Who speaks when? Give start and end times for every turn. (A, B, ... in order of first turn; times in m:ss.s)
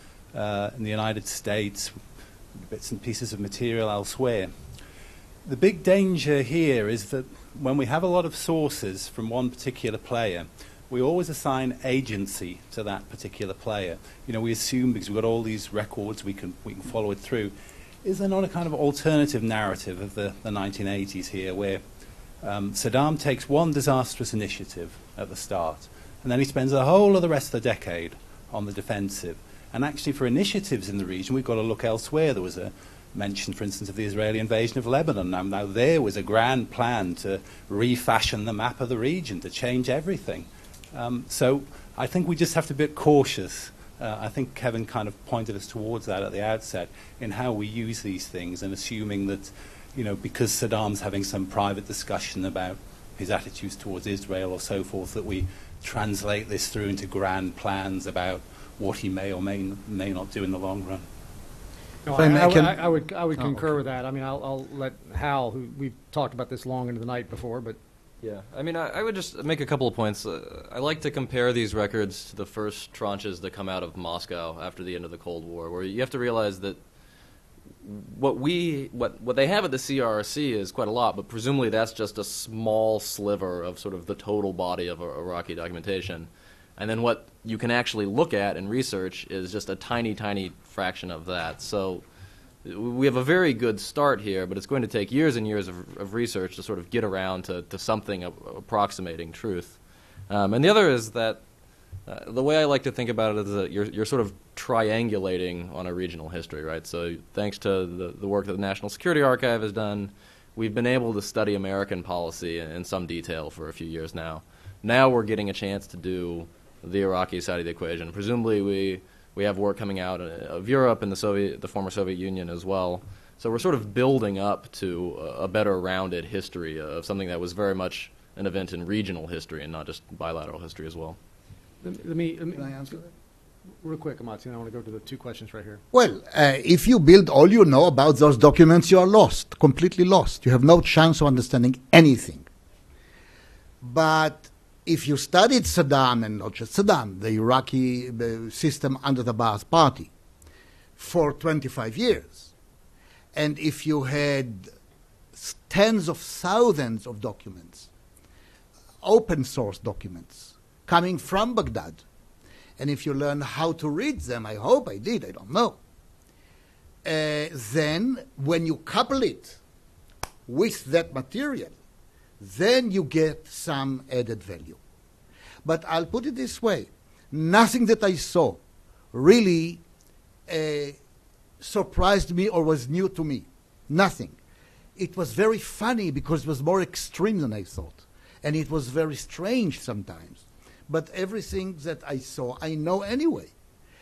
0:00.3-0:04.8 A
0:05.4-0:21.8 A
0:22.4-1:01.1 A
1:02.0-1:07.8 B
1:02.1-1:02.8 C
1:03.3-1:03.8 C
1:08.2-1:16.8 D
1:17.8-1:32.0 D
1:32.6-1:41.4 D
1:42.0-2:11.2 D
2:11.8-2:13.0 B
2:12.5-2:13.0 C
2:13.8-2:15.8 B
2:15.9-2:22.5 C
2:23.8-2:30.1 C
2:31.0-2:32.5 C
2:33.3-2:34.7 C
2:35.3-2:37.9 C
2:39.0-2:42.0 C
2:42.8-2:45.8 C
2:47.0-2:49.6 C
2:50.5-2:51.8 C
2:52.4-2:54.8 C
2:55.6-2:58.6 C
2:59.1-2:59.8 C
3:00.5-3:01.0 C
3:01.6-3:04.4 C
3:05.0-3:13.5 C